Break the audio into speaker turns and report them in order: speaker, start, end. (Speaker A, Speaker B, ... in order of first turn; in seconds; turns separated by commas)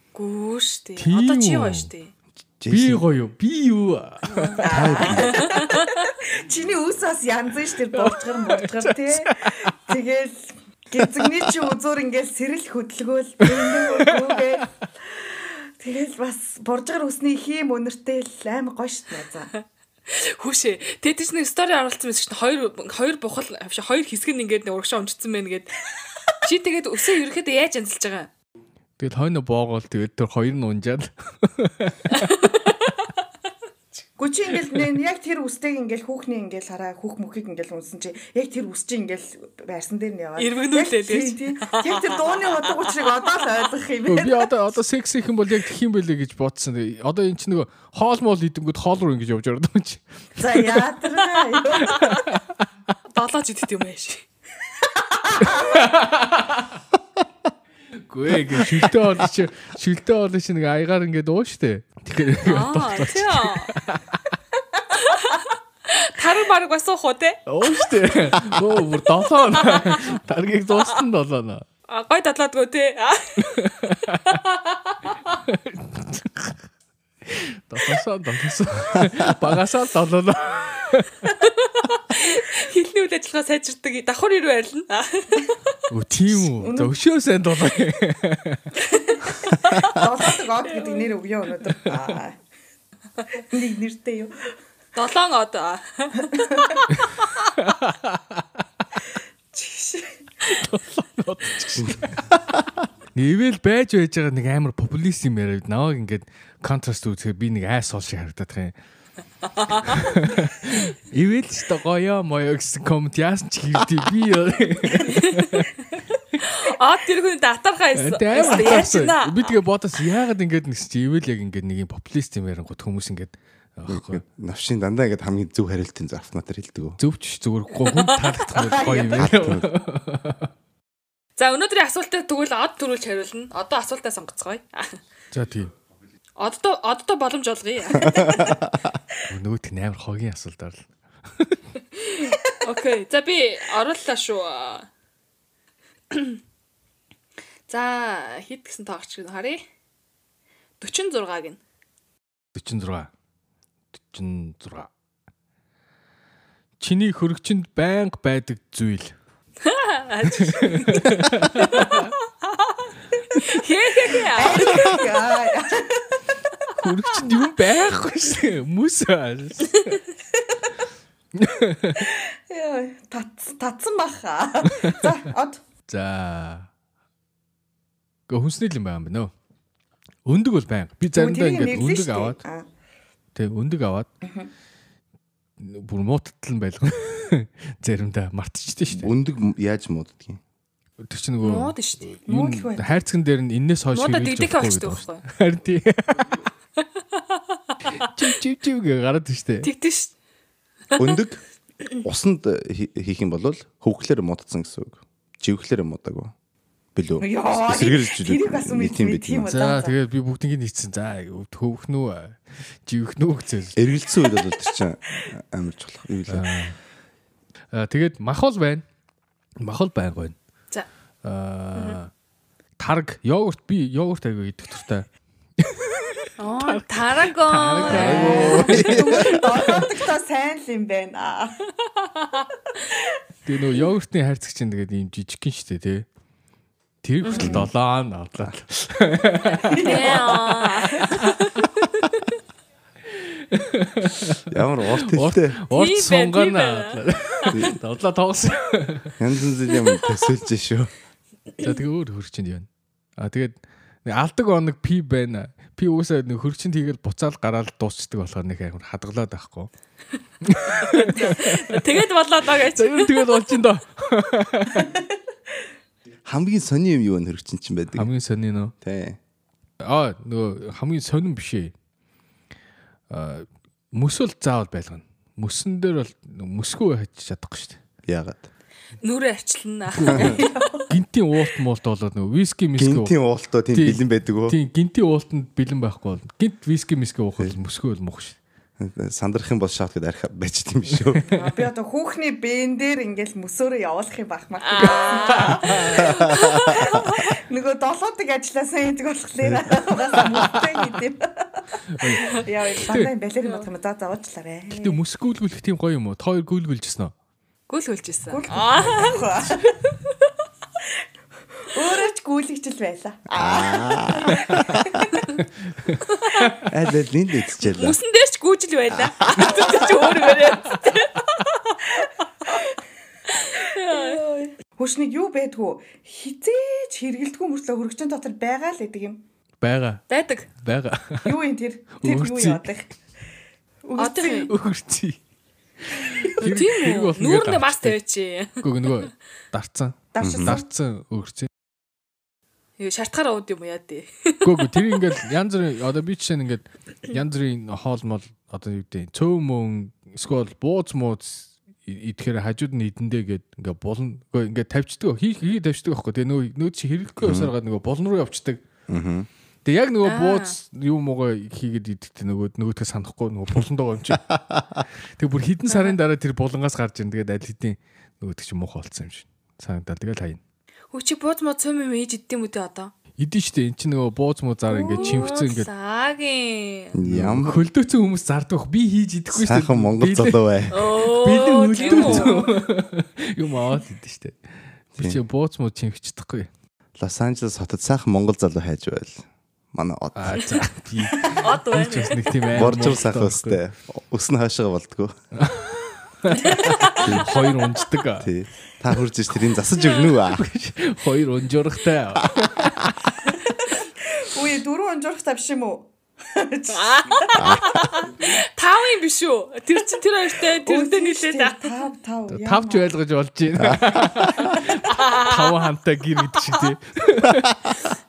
Speaker A: 0.1-2.1, Speaker B: 1.0-1.9, Speaker C: 2.6-3.0, Speaker B: 2.7-4.7, Speaker A: 4.3-5.9, Speaker D: 4.6-19.5, Speaker C: 4.6-5.6, Speaker B: 7.9-9.8, Speaker B: 11.0-11.5, Speaker B: 13.5-14.5, Speaker A: 20.1-25.8, Speaker A: 26.4-28.3, Speaker B: 29.0-32.2, Speaker A: 32.1-33.1, Speaker D: 34.2-44.5, Speaker A: 40.4-43.3, Speaker B: 44.1-50.8, Speaker D: 50.4-52.2, Speaker A: 51.4-52.0, Speaker B: 51.8-52.6, Speaker A: 53.1-54.2, Speaker D: 54.9-55.9, Speaker B: 55.4-56.7, Speaker B: 58.1-64.0, Speaker A: 62.5-63.7, Speaker A: 64.9-67.9, Speaker B: 67.5-71.7, Speaker A: 69.6-70.0, Speaker A: 71.9-73.7, Speaker B: 73.5-74.4, Speaker A: 74.3-75.2, Speaker B: 75.5-76.5, Speaker B: 77.3-81.2, Speaker A: 81.4-85.7, Speaker B: 85.9-88.7, Speaker D: 86.3-86.9, Speaker D: 89.1-92.4, Speaker A: 90.7-91.1, Speaker B: 91.9-92.1, Speaker D: 93.5-94.3, Speaker A: 95.0-97.3, Speaker D: 96.3-96.8, Speaker B: 97.5-98.4, Speaker D: 99.5-100.2, Speaker B: 100.4-102.3, Speaker B: 103.1-108.8, Speaker B: 109.8-115.7, Speaker A: 115.0-115.5, Speaker A: 116.4-119.6, Speaker B: 118.0-124.2, Speaker C: 123.9-127.0, Speaker B: 127.0-130.5, Speaker A: 127.9-128.3, Speaker D: 128.5-129.4, Speaker C: 129.1-129.7, Speaker A: 131.4-135.0, Speaker B: 135.3-135.7, Speaker A: 136.4-138.6, Speaker C: 138.0-138.7, Speaker B: 139.3-140.8, Speaker A: 142.0-144.9, Speaker A: 146.1-146.4, Speaker A: 147.7-149.6, Speaker A: 150.8-151.6, Speaker B: 152.6-153.1, Speaker B: 154.0-154.9, Speaker B: 156.8-159.1, Speaker A: 159.6-165.1, Speaker B: 160.3-162.1, Speaker D: 164.3-166.1, Speaker B: 166.7-170.0, Speaker B: 171.3-172.1, Speaker D: 172.0-175.6, Speaker B: 174.7-175.1, Speaker B: 175.9-176.7, Speaker B: 178.3-179.3, Speaker B: 180.2-182.4, Speaker D: 181.1-182.7, Speaker B: 183.3-184.1, Speaker D: 184.2-184.5, Speaker B: 185.6-189.1, Speaker C: 188.9-190.4, Speaker B: 191.0-196.4, Speaker A: 191.4-192.2, Speaker D: 192.3-193.0, Speaker A: 193.9-195.2, Speaker A: 196.8-197.7, Speaker B: 197.9-199.7, Speaker A: 199.6-200.1, Speaker A: 200.9-201.2, Speaker C: 201.0-201.4, Speaker C: 202.0-206.3, Speaker C: 206.9-209.5, Speaker D: 207.2-210.0, Speaker B: 209.5-213.8, Speaker C: 213.8-216.5, Speaker B: 216.3-216.8, Speaker B: 217.7-218.8, Speaker B: 219.6-220.4, Speaker B: 221.2-222.1, Speaker B: 222.8-225.1, Speaker B: 225.6-229.8, Speaker A: 226.4-228.8, Speaker C: 227.8-229.7, Speaker D: 228.0-231.6, Speaker A: 232.0-232.5, Speaker B: 233.5-236.1, Speaker B: 237.0-240.1, Speaker A: 237.2-237.5, Speaker C: 237.3-237.7, Speaker D: 239.6-241.3, Speaker A: 239.8-242.1, Speaker B: 241.1-241.4, Speaker B: 243.1-249.2, Speaker C: 244.5-245.6, Speaker A: 245.7-247.5, Speaker C: 247.5-247.8, Speaker C: 249.2-250.9, Speaker B: 251.6-259.7, Speaker B: 260.4-265.0, Speaker A: 260.8-263.6, Speaker C: 266.2-268.1, Speaker B: 267.9-268.7, Speaker C: 268.8-269.2, Speaker B: 269.8-271.7, Speaker B: 273.1-277.8, Speaker C: 278.1-278.5, Speaker A: 279.0-280.5, Speaker B: 279.9-283.1, Speaker D: 280.1-280.9, Speaker C: 282.8-284.6, Speaker B: 283.7-288.4, Speaker C: 288.8-291.3, Speaker D: 291.3-305.0, Speaker A: 294.6-297.3, Speaker B: 295.2-296.0, Speaker C: 296.0-296.4, Speaker C: 299.4-300.4, Speaker B: 300.1-300.4, Speaker B: 301.9-303.1, Speaker A: 303.4-303.7, Speaker B: 304.7-307.1, Speaker A: 307.7-309.9, Speaker D: 308.3-309.8, Speaker D: 311.6-315.3, Speaker C: 313.4-315.0, Speaker B: 315.7-316.6, Speaker A: 316.2-316.6, Speaker C: 316.6-318.0, Speaker A: 317.6-321.8, Speaker D: 319.4-320.5, Speaker D: 322.0-322.7, Speaker A: 323.3-324.3, Speaker D: 323.8-329.2, Speaker B: 329.6-330.0, Speaker A: 330.1-330.5, Speaker B: 330.6-331.4, Speaker D: 331.2-332.9, Speaker B: 332.0-332.7, Speaker D: 333.8-334.5, Speaker A: 334.0-334.5, Speaker B: 334.5-335.2, Speaker B: 335.8-338.0, Speaker A: 336.3-339.1, Speaker B: 338.6-341.5, Speaker D: 340.1-340.7, Speaker C: 340.2-340.6, Speaker A: 342.8-345.0, Speaker B: 344.4-358.6, Speaker C: 357.2-357.5, Speaker C: 358.9-359.3, Speaker B: 359.6-364.4, Speaker A: 360.0-360.6, Speaker C: 364.5-364.8, Speaker B: 365.2-370.4, Speaker A: 365.7-366.0, Speaker A: 370.9-372.9, Speaker B: 373.2-375.7, Speaker A: 374.7-377.0, Speaker C: 376.9-377.7, Speaker B: 377.0-384.4, Speaker C: 379.3-380.9, Speaker A: 380.7-382.5, Speaker D: 381.8-382.1, Speaker B: 385.0-386.5, Speaker C: 387.0-390.6, Speaker B: 390.1-393.6, Speaker A: 391.2-392.4, Speaker C: 392.5-395.1, Speaker B: 395.3-398.3, Speaker D: 396.3-397.1, Speaker A: 396.4-397.2, Speaker C: 396.9-397.4, Speaker C: 398.2-400.5, Speaker A: 399.8-400.2, Speaker B: 400.3-403.2, Speaker D: 403.4-407.6, Speaker A: 406.7-411.9, Speaker C: 407.4-407.6, Speaker D: 410.6-412.9, Speaker B: 412.3-417.8, Speaker C: 413.6-414.6, Speaker D: 414.5-414.8, Speaker A: 414.9-415.5